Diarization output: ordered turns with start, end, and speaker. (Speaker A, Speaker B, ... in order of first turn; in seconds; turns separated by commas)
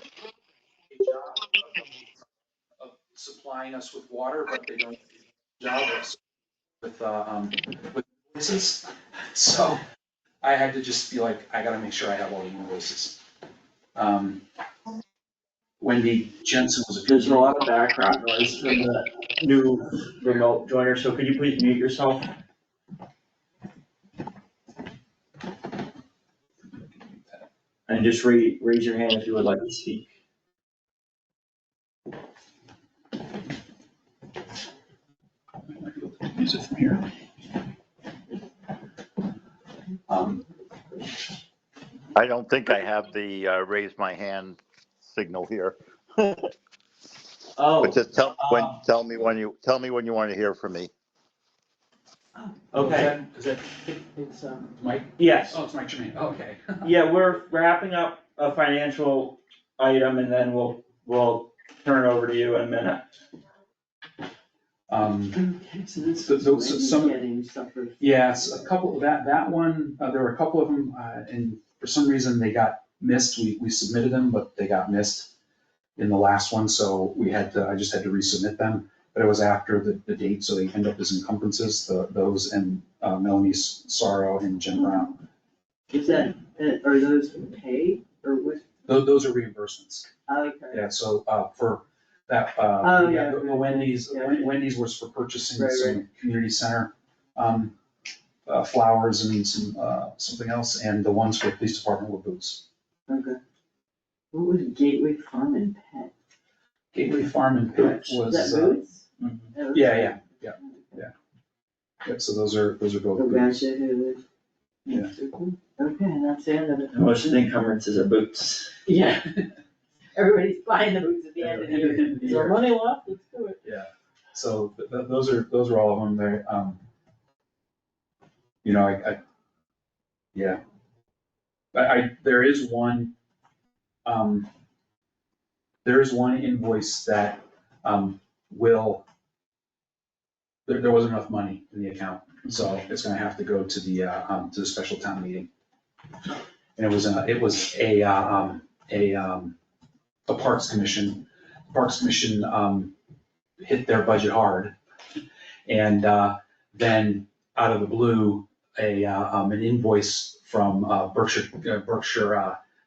Speaker A: 0.9-1.6, Speaker A: 2.8-5.1, Speaker A: 5.6-6.2, Speaker A: 6.8-9.8, Speaker A: 10.4-13.2, Speaker A: 13.9-14.4, Speaker A: 15.8-17.5, Speaker B: 17.1-22.3, Speaker A: 27.0-27.4, Speaker B: 27.9-30.1, Speaker A: 35.7-37.0, Speaker A: 40.1-40.4, Speaker C: 42.1-46.5, Speaker B: 47.6-48.8, Speaker C: 47.8-50.9, Speaker B: 52.7-53.1, Speaker A: 52.7-53.9, Speaker D: 54.1-54.7, Speaker A: 54.8-56.9, Speaker B: 55.2-55.6, Speaker B: 56.8-63.1, Speaker A: 64.9-65.4, Speaker D: 65.3-68.7, Speaker A: 66.2-67.2, Speaker A: 68.0-75.3, Speaker A: 76.0-85.2, Speaker D: 85.9-88.6, Speaker A: 88.8-90.1, Speaker D: 90.3-90.8, Speaker A: 90.7-97.7, Speaker D: 92.8-94.5, Speaker D: 95.5-96.0, Speaker A: 98.5-102.6, Speaker D: 103.1-103.4, Speaker D: 104.3-106.1, Speaker A: 106.9-108.8, Speaker D: 107.7-109.0, Speaker B: 109.2-109.5, Speaker D: 109.5-110.2, Speaker A: 109.7-111.1, Speaker A: 112.0-113.7, Speaker D: 113.1-114.2, Speaker D: 114.8-116.9, Speaker B: 116.9-118.8, Speaker D: 118.8-119.4, Speaker D: 120.1-123.6, Speaker A: 121.4-122.6, Speaker B: 122.3-122.5, Speaker A: 123.6-126.8, Speaker A: 128.6-129.2, Speaker A: 130.3-130.6, Speaker A: 131.7-133.1, Speaker A: 134.1-134.5, Speaker A: 135.8-139.0, Speaker A: 140.7-145.5, Speaker A: 146.8-149.5, Speaker A: 150.3-152.9, Speaker A: 153.6-154.7, Speaker A: 155.7-162.6